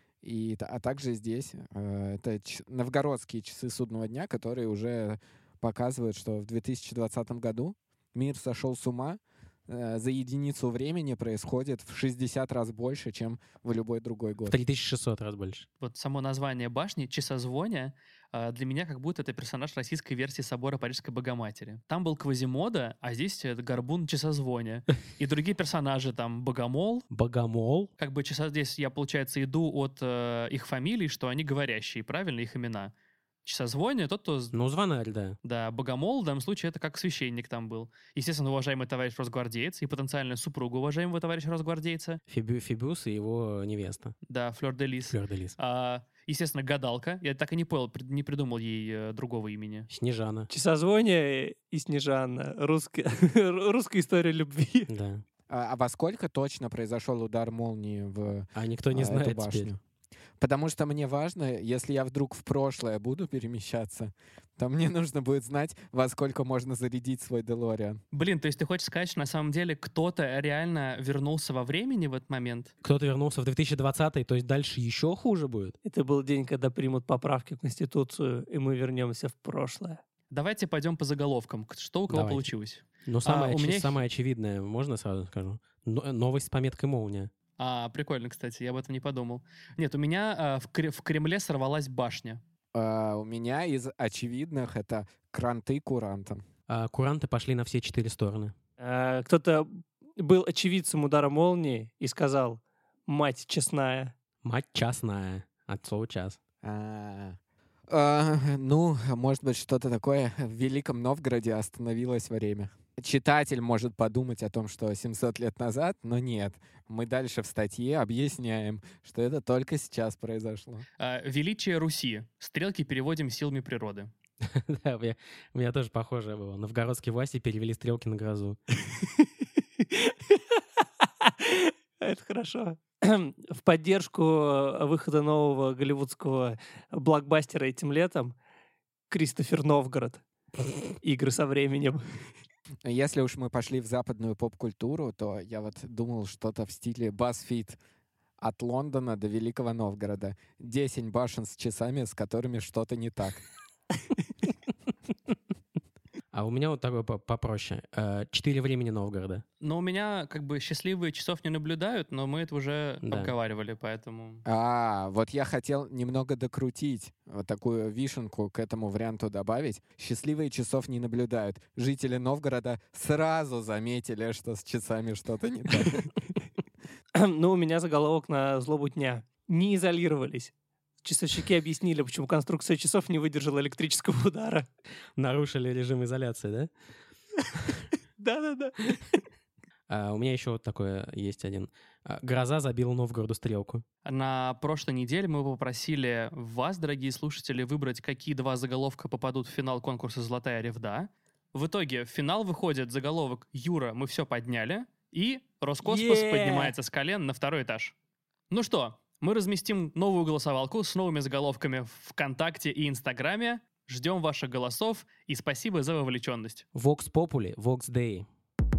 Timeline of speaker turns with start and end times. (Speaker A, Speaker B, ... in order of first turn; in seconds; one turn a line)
Speaker A: 0.2-14.6
Speaker B: 14.4-15.7
Speaker C: 15.8-27.0
Speaker B: 27.1-27.9
Speaker C: 28.0-32.9
Speaker C: 33.4-34.5
Speaker B: 34.5-35.4
Speaker C: 35.4-42.2
Speaker B: 42.3-44.1
Speaker C: 44.3-49.9
Speaker B: 45.1-45.5
Speaker B: 49.9-50.5
Speaker D: 50.5-54.9
Speaker B: 54.9-55.2
Speaker A: 55.5-59.8
Speaker B: 58.5-59.7
Speaker A: 60.4-68.0
Speaker C: 68.1-72.7
Speaker B: 72.8-75.8
Speaker D: 75.8-80.0
Speaker C: 80.3-84.0
Speaker B: 82.1-82.5
Speaker B: 83.0-87.3
Speaker C: 87.6-92.4
Speaker A: 92.7-96.4
Speaker B: 96.7-98.5
Speaker D: 98.8-104.1
Speaker B: 104.4-106.4
Speaker A: 106.6-107.4
Speaker A: 107.9-120.8
Speaker C: 121.0-124.1
Speaker B: 124.5-128.6
Speaker D: 129.8-138.3
Speaker D: 139.1-140.2
Speaker D: 141.0-142.0
Speaker A: 142.8-147.8
Speaker A: 148.4-153.4
Speaker B: 156.3-159.4
Speaker C: 159.6-164.4
Speaker B: 163.0-163.3
Speaker A: 164.4-176.1
Speaker D: 177.1-180.5
Speaker D: 181.0-184.7
Speaker B: 185.2-186.7
Speaker D: 188.2-189.2
Speaker B: 189.9-193.8
Speaker C: 194.0-207.9
Speaker D: 205.8-206.7
Speaker C: 208.5-216.6
Speaker B: 216.7-218.3